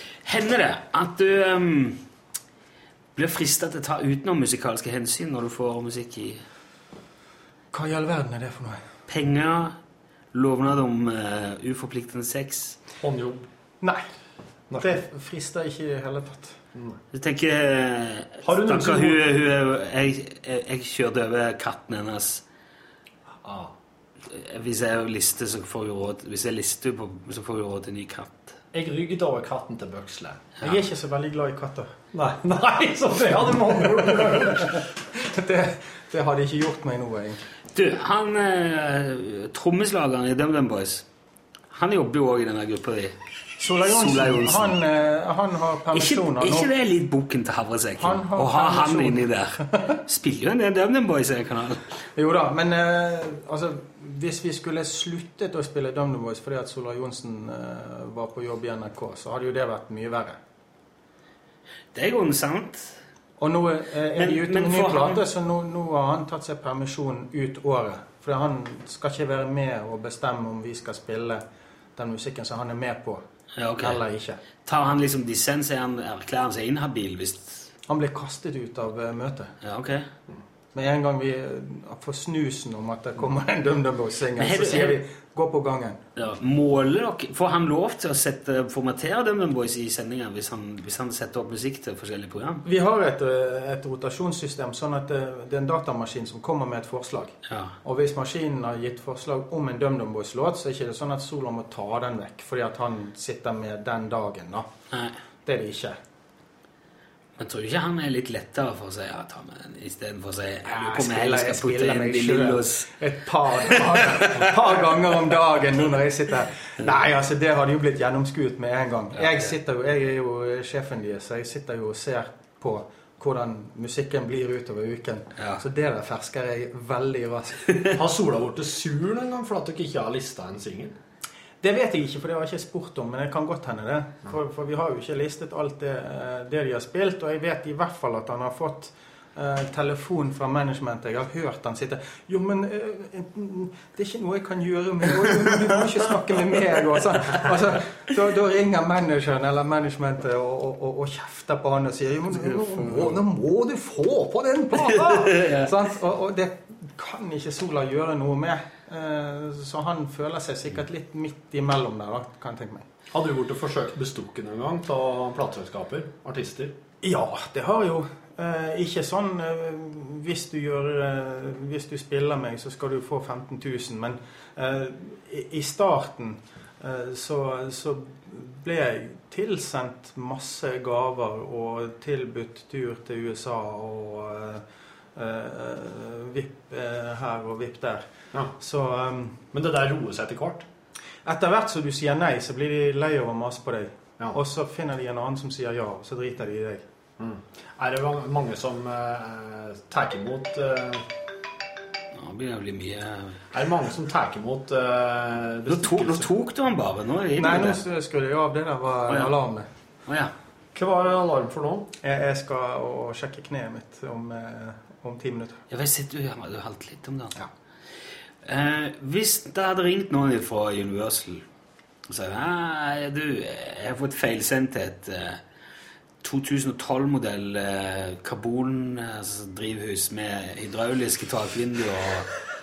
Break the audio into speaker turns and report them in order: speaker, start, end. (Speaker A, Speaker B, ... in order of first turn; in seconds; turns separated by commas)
Speaker A: 0.2-2.0, Speaker A: 3.1-6.4, Speaker B: 7.7-8.8, Speaker A: 9.1-9.8, Speaker A: 10.3-12.8, Speaker C: 13.0-13.5, Speaker C: 14.7-15.0, Speaker B: 14.8-16.6, Speaker A: 17.1-22.4, Speaker C: 18.4-19.2, Speaker C: 23.4-23.7, Speaker A: 24.3-28.6, Speaker C: 28.7-30.8, Speaker B: 30.6-31.9, Speaker C: 32.1-34.9, Speaker B: 33.9-37.4, Speaker A: 37.7-41.0, Speaker A: 41.7-43.2, Speaker B: 43.6-46.7, Speaker A: 43.8-44.8, Speaker A: 45.9-51.9, Speaker B: 48.0-50.0, Speaker B: 52.2-60.4, Speaker A: 61.9-63.0, Speaker B: 63.4-71.4, Speaker A: 64.2-65.2, Speaker B: 72.0-73.2, Speaker A: 73.6-74.0, Speaker B: 73.8-74.4, Speaker A: 74.7-77.7, Speaker B: 77.9-79.5, Speaker A: 79.6-80.1, Speaker B: 80.8-86.0, Speaker A: 84.4-85.0, Speaker A: 86.2-92.6, Speaker B: 92.6-104.7, Speaker A: 97.5-97.8, Speaker B: 105.5-106.0, Speaker A: 107.4-112.9, Speaker B: 110.7-128.0, Speaker A: 113.6-114.5, Speaker A: 119.2-119.5, Speaker A: 125.4-125.6, Speaker C: 128.0-130.9, Speaker B: 131.6-162.9, Speaker A: 152.4-153.1, Speaker A: 154.8-155.8, Speaker C: 163.1-166.8, Speaker B: 167.0-184.6, Speaker B: 185.2-188.1, Speaker B: 188.6-189.4, Speaker C: 189.5-190.7, Speaker B: 191.2-196.8, Speaker C: 197.2-201.1, Speaker A: 202.1-203.4, Speaker C: 203.5-206.3, Speaker A: 205.7-207.8, Speaker B: 207.4-209.7, Speaker A: 209.1-209.3, Speaker C: 210.7-211.9, Speaker B: 212.0-215.6, Speaker A: 215.7-217.4, Speaker A: 218.4-221.4, Speaker A: 222.1-225.4, Speaker A: 226.2-232.3